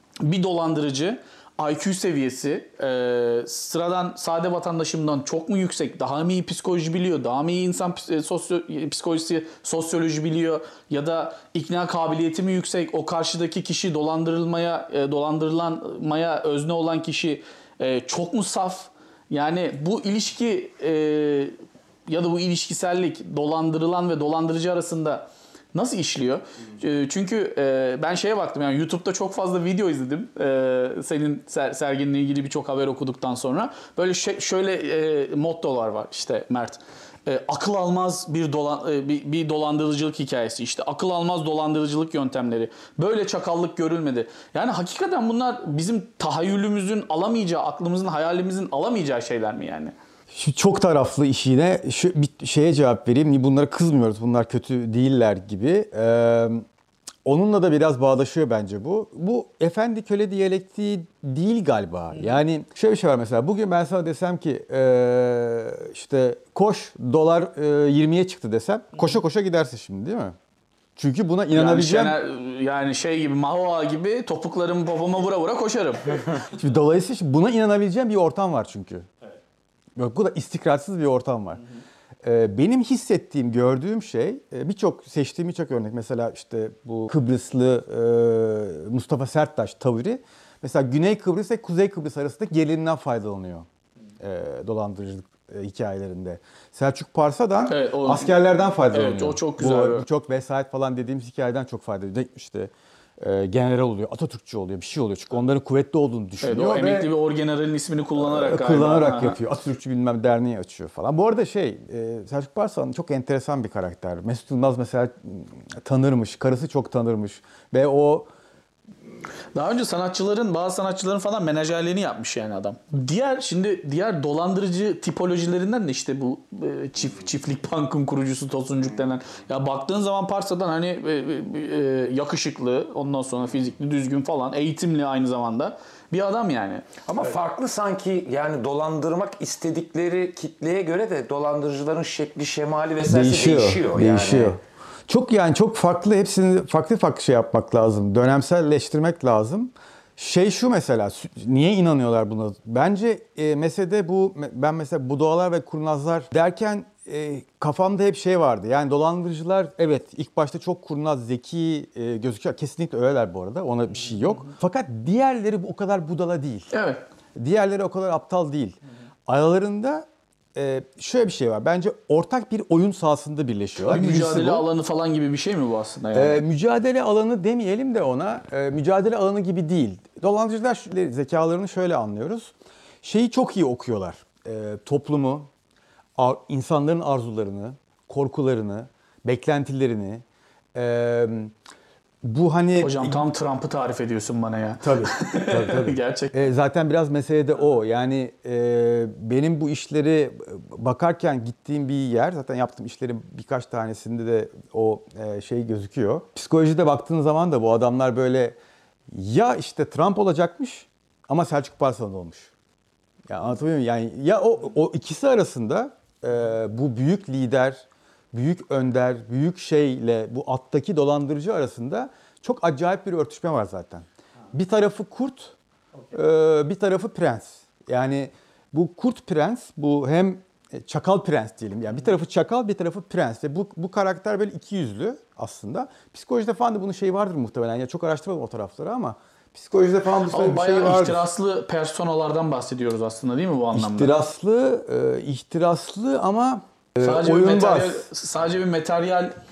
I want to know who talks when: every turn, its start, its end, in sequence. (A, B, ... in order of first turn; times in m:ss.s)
0:00.2-0:21.5 A
0:22.1-0:49.9 A
0:50.3-0:56.6 B
0:57.2-1:10.3 B
1:11.0-1:12.2 B
1:11.5-1:16.3 A
1:16.4-1:19.1 B
1:20.0-1:21.6 B
1:22.2-1:33.7 B
1:34.2-1:47.1 B
1:37.7-1:38.3 A
1:38.9-1:40.1 A
1:46.4-1:49.4 A
1:48.2-1:58.3 B
1:59.5-2:17.0 A
2:17.0-2:24.6 C
2:23.0-2:46.7 B
2:46.7-2:47.0 A
2:47.4-2:54.6 B
2:53.8-2:56.4 A
2:56.1-3:05.5 B
3:06.2-3:10.2 B
3:10.7-3:11.5 B
3:12.2-3:13.2 B
3:12.8-3:16.3 A
3:14.8-3:28.6 B
3:29.1-3:32.5 B
3:33.3-3:45.6 B
3:46.1-4:01.3 B
4:00.3-4:04.1 A
4:03.7-4:08.0 B
4:07.0-4:09.3 A